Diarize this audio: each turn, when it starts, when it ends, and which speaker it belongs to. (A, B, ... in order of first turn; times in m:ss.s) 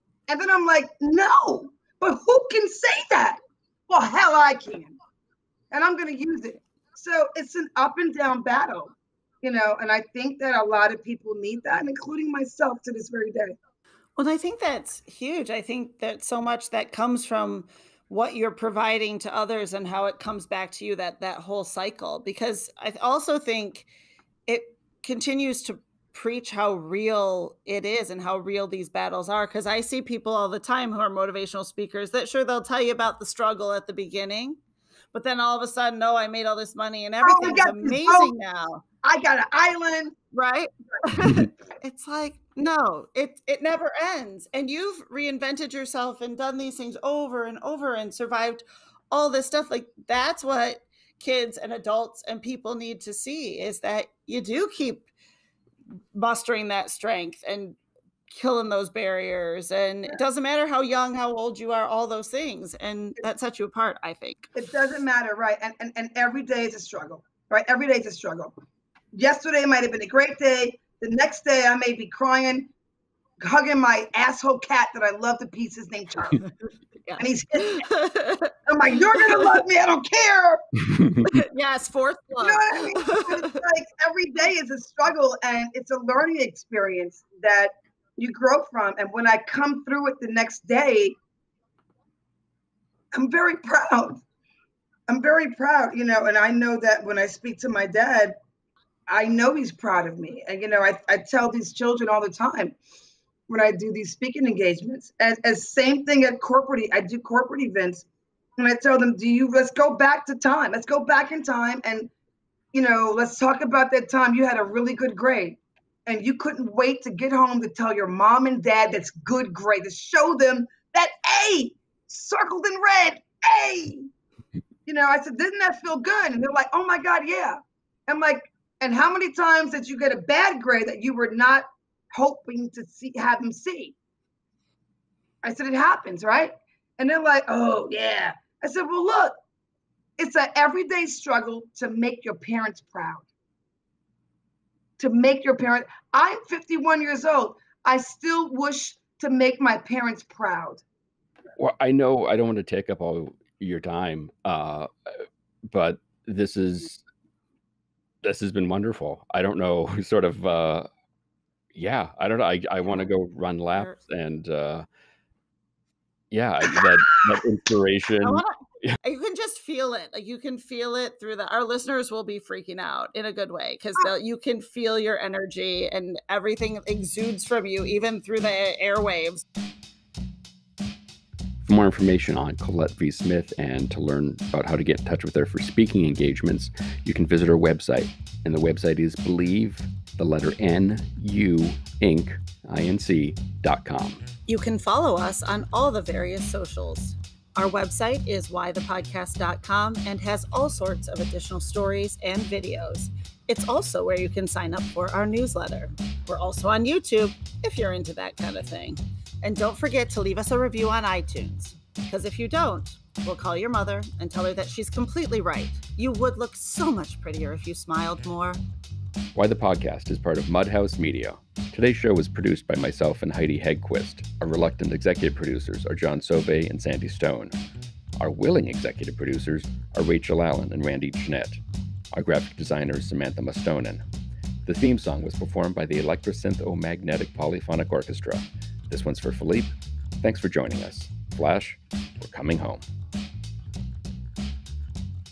0:00.3-0:05.0 A
0:05.7-0:13.6 A
0:14.2-0:23.9 B
0:24.5-0:34.6 B
0:35.1-0:38.8 B
0:37.2-0:38.3 A
0:39.0-0:40.1 A
0:40.3-0:55.1 B
0:56.1-0:57.8 B
0:58.3-1:04.5 B
1:04.5-1:08.5 A
1:09.1-1:12.7 A
1:13.4-1:16.4 A
1:17.0-1:18.6 B
1:17.2-1:17.9 A
1:18.6-1:20.6 A
1:19.1-1:19.5 B
1:21.2-1:23.6 B
1:22.4-1:31.1 A
1:33.1-1:34.2 A
1:35.1-1:38.3 A
1:39.1-1:42.7 A
1:43.5-1:48.0 A
1:48.6-1:52.1 A
1:52.7-2:04.1 A
2:04.8-2:13.9 A
2:15.4-2:19.4 A
2:20.2-2:23.2 A
2:25.0-2:30.8 A
2:31.6-2:37.0 C
2:38.2-2:40.9 C
2:41.7-2:44.8 C
2:43.7-2:44.0 B
2:46.3-2:49.0 C
2:48.2-2:59.4 B
3:01.6-3:14.2 C
3:14.5-3:38.6 B
3:39.3-3:47.5 C
3:48.2-3:51.6 C
3:52.1-3:54.0 C
3:54.6-4:02.8 C